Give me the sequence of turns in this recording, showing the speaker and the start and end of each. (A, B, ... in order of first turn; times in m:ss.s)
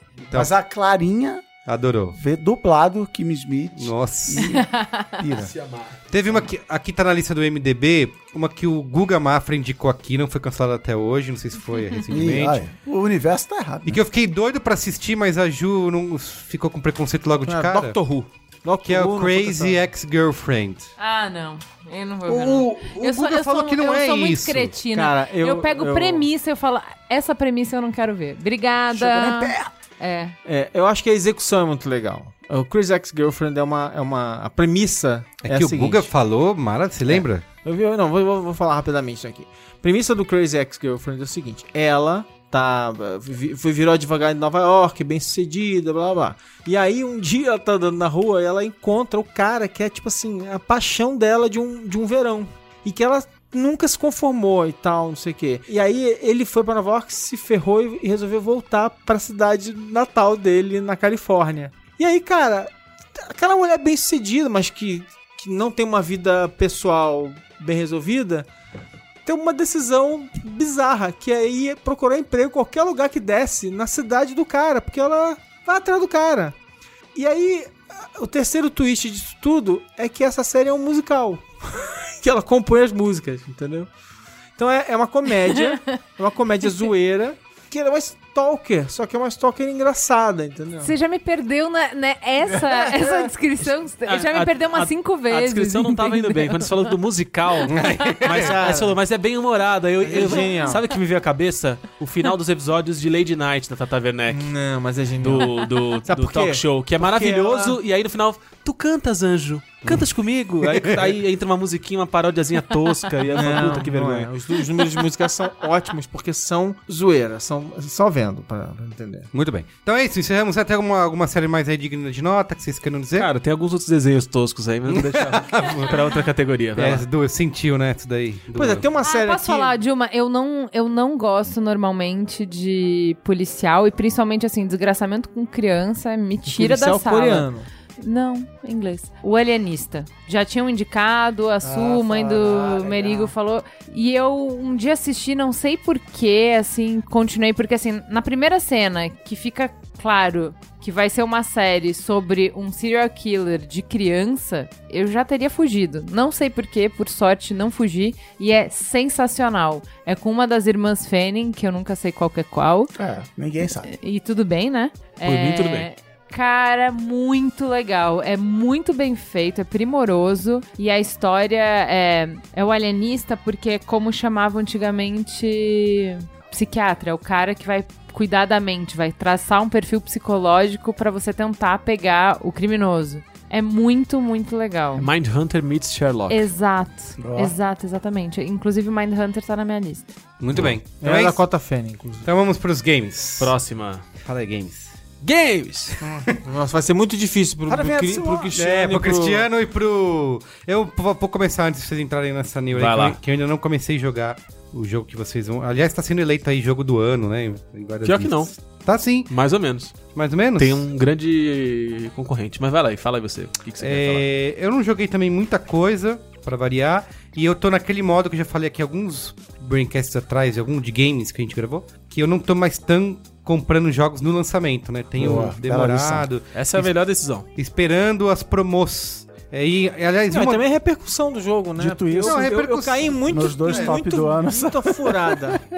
0:00.2-0:00.5 A
0:00.3-0:01.4 B
0:01.6-0:02.2 A
0:02.1-0:05.5 B
0:03.8-0:04.6 A
0:04.4-0:05.1 C
0:05.4-0:06.0 D
0:06.1-0:12.6 A
0:12.1-0:14.0 B
0:13.8-0:18.0 A
0:17.5-0:19.8 E
0:18.8-0:20.9 A
0:21.0-0:30.3 C
0:22.3-0:24.7 A
0:24.9-0:26.3 E
0:28.9-0:29.7 B
0:30.4-0:36.1 E
0:35.4-0:37.4 A
0:37.0-1:08.5 E
1:09.2-1:16.6 E
1:17.1-1:23.9 E
1:24.6-1:30.9 E
1:30.8-1:36.9 C
1:32.5-1:33.3 E
1:34.0-1:44.5 D
1:37.7-1:38.6 A
1:38.3-1:39.0 E
1:40.0-1:40.8 E
1:40.2-1:40.8 C
1:44.3-1:47.8 E
1:45.2-1:54.3 D
1:50.6-1:51.1 A
1:53.3-1:59.3 E
1:59.3-2:03.3 A
2:03.2-2:07.0 D
2:04.9-2:06.1 A
2:06.7-2:08.8 A
2:08.5-2:09.8 E
2:09.0-2:42.9 C
2:16.5-2:17.7 E
2:21.6-2:23.3 B
2:42.9-2:43.9 B
2:43.8-3:05.1 C
2:45.2-2:45.9 D
3:05.0-3:06.5 D
3:06.3-3:10.1 C
3:07.2-3:07.6 B
3:10.4-3:11.4 A
3:10.5-3:10.8 D
3:11.0-3:12.3 E
3:12.2-3:13.6 A
3:13.4-3:14.0 D
3:14.2-3:14.9 A
3:15.2-3:16.0 D
3:16.0-3:19.4 E
3:17.7-3:18.7 B
3:18.5-3:29.3 A
3:22.7-3:23.2 D
3:28.0-3:28.5 D
3:29.3-3:30.0 D
3:30.1-3:30.9 A
3:30.6-3:34.2 D
3:33.8-3:46.9 A
3:45.2-3:46.3 B
3:46.5-3:47.4 D
3:47.6-3:50.6 A
3:50.3-3:55.6 E
3:51.8-3:52.6 B
3:52.2-3:54.0 A
3:53.2-3:55.6 B